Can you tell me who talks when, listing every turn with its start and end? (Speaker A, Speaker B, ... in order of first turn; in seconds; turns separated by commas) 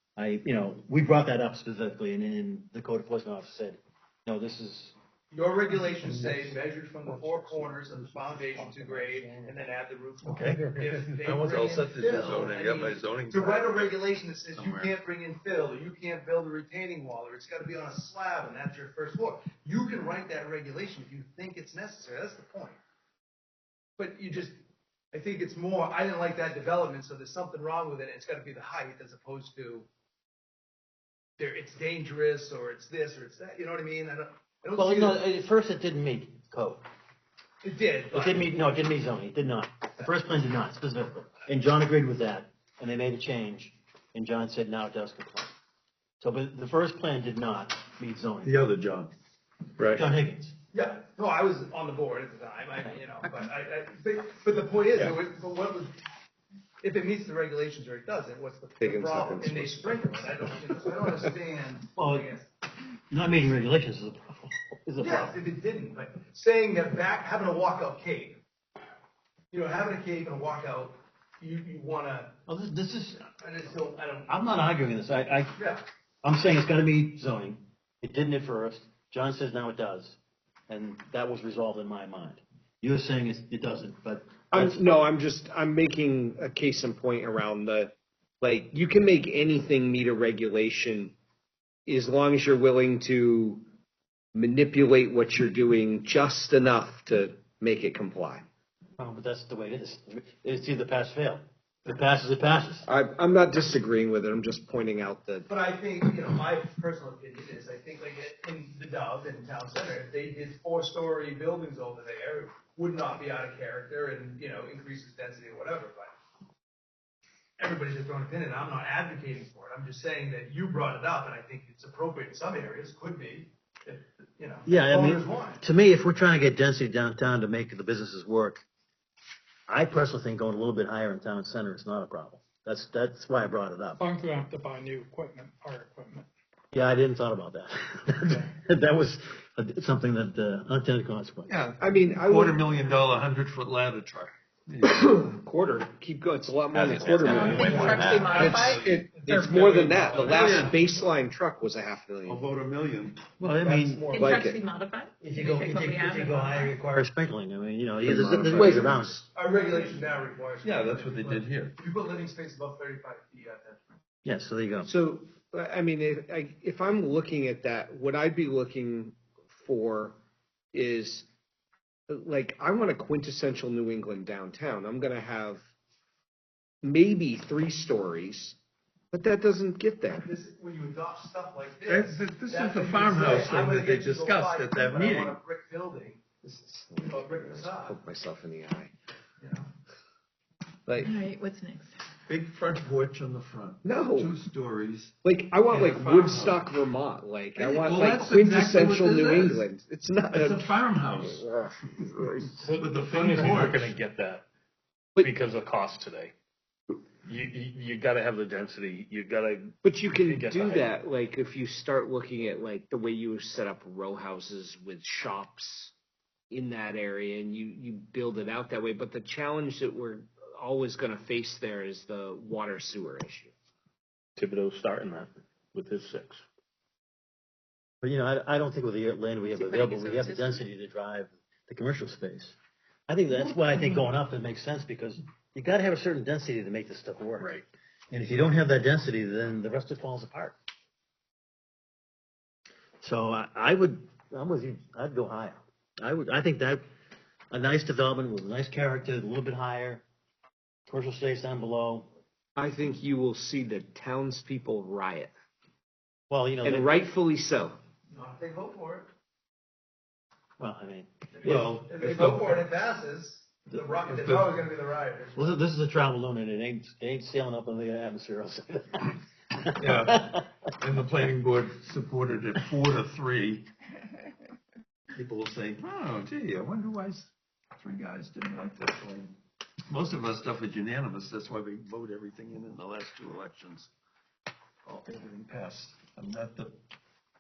Speaker A: 0.2-4.9, Speaker B: 5.3-22.8, Speaker C: 8.5-9.3, Speaker D: 10.2-13.9, Speaker D: 14.6-14.9, Speaker B: 24.0-24.6, Speaker B: 25.1-29.9, Speaker B: 31.4-35.2, Speaker A: 34.8-36.8, Speaker B: 37.6-38.5, Speaker A: 38.1-45.5, Speaker A: 46.2-48.6, Speaker D: 48.4-49.1, Speaker D: 49.8-50.0, Speaker A: 49.9-50.5, Speaker B: 50.7-56.0, Speaker B: 56.8-62.5, Speaker E: 58.8-60.3, Speaker A: 62.0-62.3, Speaker A: 63.1-65.4, Speaker B: 65.0-68.4, Speaker B: 69.5-72.3, Speaker A: 72.5-73.3, Speaker B: 73.4-74.3, Speaker A: 74.3-75.6, Speaker B: 75.6-75.8, Speaker A: 76.2-84.8, Speaker E: 84.5-91.2, Speaker E: 91.9-93.7, Speaker E: 94.3-98.5, Speaker A: 99.0-102.9, Speaker E: 102.9-105.5, Speaker B: 105.5-116.1, Speaker B: 117.6-125.6, Speaker A: 124.7-128.6, Speaker A: 129.7-134.0, Speaker C: 134.0-136.2, Speaker A: 136.7-141.6, Speaker D: 141.5-145.4, Speaker E: 141.7-142.6, Speaker E: 144.8-152.5, Speaker D: 146.7-149.0, Speaker F: 147.2-149.6, Speaker B: 148.2-148.7, Speaker B: 149.2-150.8, Speaker D: 150.1-150.8, Speaker D: 152.3-153.2, Speaker A: 153.4-154.2, Speaker E: 153.6-154.6, Speaker F: 154.1-156.7, Speaker A: 155.2-159.2, Speaker E: 158.1-159.2, Speaker D: 158.5-158.9, Speaker B: 159.3-163.9, Speaker D: 160.6-161.8, Speaker A: 164.2-164.9, Speaker E: 164.8-170.2, Speaker E: 170.7-171.3, Speaker E: 172.1-175.6, Speaker E: 176.8-178.6, Speaker E: 179.1-180.3, Speaker B: 180.1-186.3, Speaker D: 181.8-185.4, Speaker E: 186.4-188.9, Speaker B: 187.0-188.0, Speaker B: 189.4-189.7, Speaker E: 190.9-191.2, Speaker F: 191.0-191.9, Speaker D: 192.3-195.1, Speaker E: 193.8-194.3, Speaker E: 195.2-202.6, Speaker D: 195.7-196.7, Speaker D: 197.6-199.7, Speaker D: 200.3-201.4, Speaker D: 202.0-203.9, Speaker G: 202.6-204.5, Speaker G: 205.2-206.3, Speaker G: 207.2-210.9, Speaker E: 209.8-215.9, Speaker E: 216.5-223.5, Speaker G: 224.4-226.4, Speaker A: 228.0-232.6, Speaker F: 229.5-230.6, Speaker A: 233.1-237.6, Speaker A: 238.1-240.6, Speaker A: 243.0-246.8, Speaker A: 247.5-250.0, Speaker A: 250.9-252.1, Speaker E: 252.6-255.3, Speaker A: 256.3-257.0, Speaker E: 256.6-257.8, Speaker B: 258.1-259.1, Speaker A: 260.6-261.1, Speaker B: 261.4-265.6, Speaker D: 261.4-262.7, Speaker D: 263.9-264.5, Speaker A: 265.4-270.4, Speaker D: 269.8-273.7, Speaker D: 275.1-279.4, Speaker D: 279.9-283.9, Speaker D: 284.9-286.8